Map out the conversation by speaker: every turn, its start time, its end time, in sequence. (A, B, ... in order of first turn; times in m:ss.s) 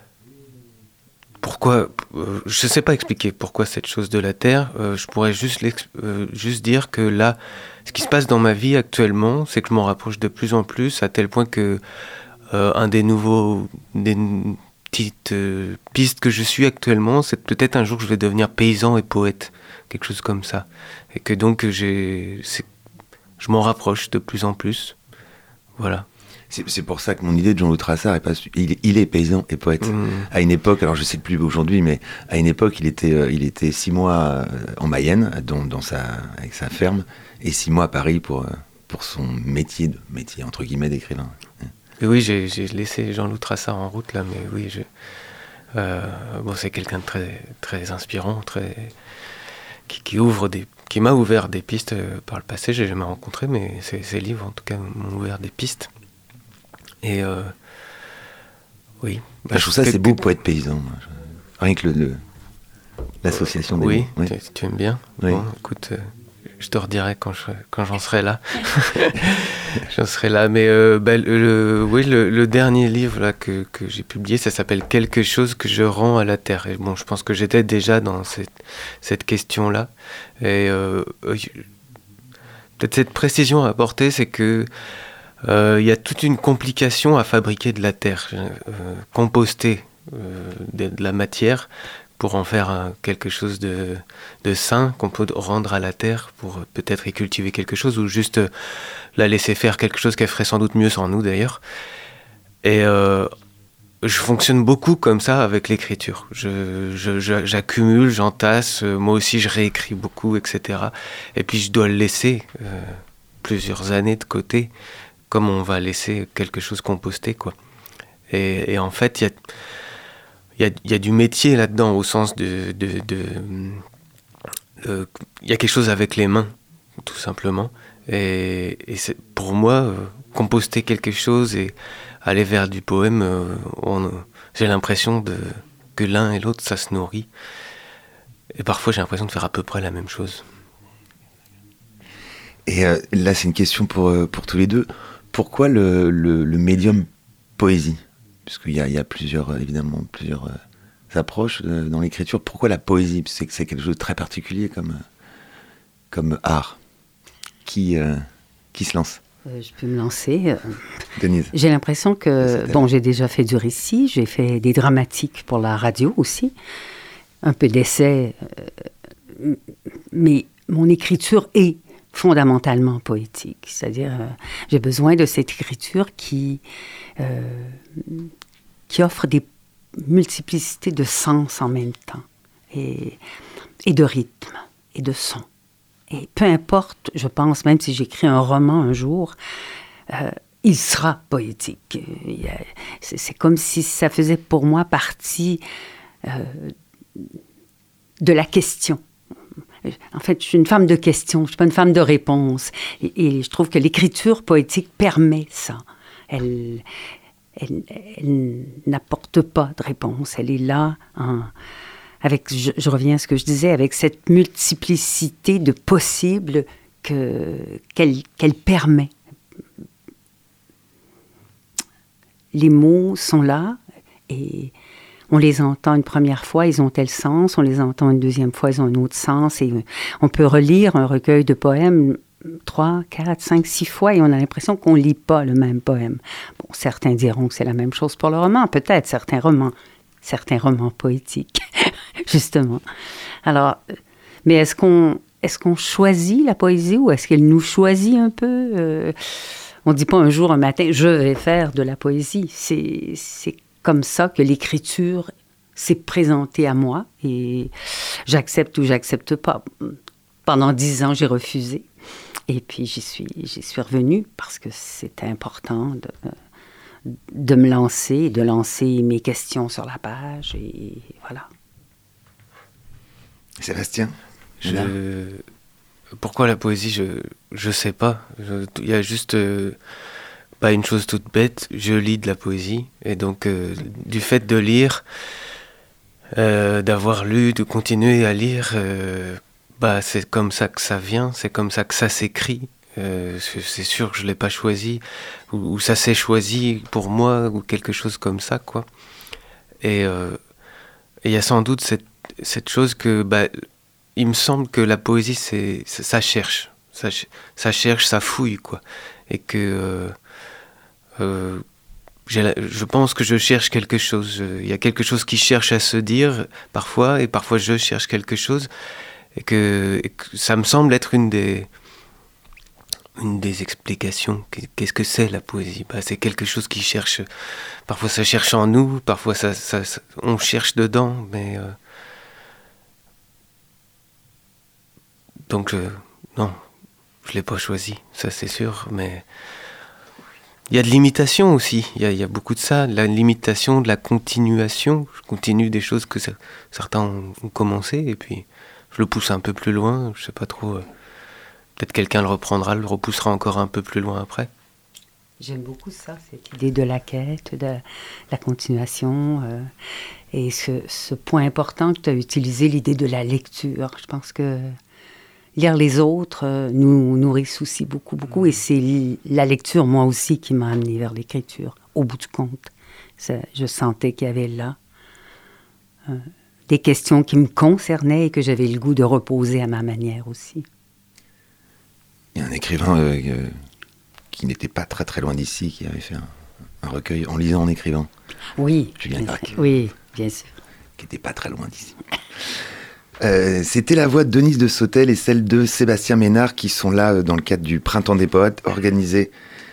0:01.4-0:11.8 A
0:12.5-0:22.6 A
0:23.4-0:25.0 A
0:25.8-0:26.1 A
0:26.5-0:41.7 B
0:29.8-0:30.3 A
0:42.0-0:44.9 A
0:45.7-0:48.9 A
0:49.9-0:55.9 A
0:57.0-0:57.5 A
0:59.0-1:00.2 A
0:59.5-1:02.2 B
1:03.2-1:04.3 B
1:03.3-1:21.6 A
1:22.8-1:24.7 A
1:25.4-1:41.6 A
1:42.6-1:43.3 A
1:44.0-1:54.7 A
1:55.3-1:57.5 A
1:58.3-1:59.4 A
2:00.6-2:03.8 A
2:04.8-2:17.3 A
2:18.5-2:20.4 A
2:22.6-2:30.6 B
2:31.1-2:35.0 B
2:36.1-2:36.8 B
2:37.6-2:39.2 B
2:39.4-2:40.8 C
2:41.2-2:41.5 B
2:41.5-2:46.5 C
2:42.4-2:42.8 B
2:47.4-2:48.7 C
2:49.3-2:49.6 C
2:50.1-2:56.6 C
2:57.2-2:58.3 C
2:58.9-3:03.2 C
3:03.8-3:05.5 C
3:06.1-3:09.4 C
3:10.1-3:15.6 C
3:16.2-3:17.3 C
3:18.2-3:19.0 C
3:19.8-3:26.8 C
3:27.6-3:31.5 C
3:32.2-3:39.1 C
3:42.5-3:44.7 C
3:45.3-4:02.8 C
4:03.4-4:09.1 C
4:09.8-4:17.7 C
4:18.3-4:21.9 C
4:22.5-4:26.3 C
4:27.0-4:31.4 C
4:33.6-4:34.9 B
4:34.6-4:35.4 A
4:36.2-4:39.8 A
4:40.6-4:45.0 A
4:46.3-4:58.9 A
4:59.8-5:00.4 A
5:01.2-5:03.6 A
5:04.2-5:10.2 A
5:11.2-5:11.6 A
5:12.3-5:18.7 A
5:19.4-5:21.7 A
5:23.2-5:27.2 A
5:27.9-5:31.8 A
5:35.5-5:36.6 A
5:37.2-5:39.2 A
5:40.7-5:50.8 A
5:51.8-5:54.5 A
5:55.4-5:59.7 C
6:00.3-6:04.7 C
6:05.6-6:14.8 C
6:16.1-6:20.6 C
6:22.3-6:23.5 B
6:24.3-6:26.3 B
6:26.8-6:28.1 B
6:28.6-6:30.5 C
6:29.0-6:29.7 B
6:31.0-6:32.0 B
6:33.2-6:39.3 B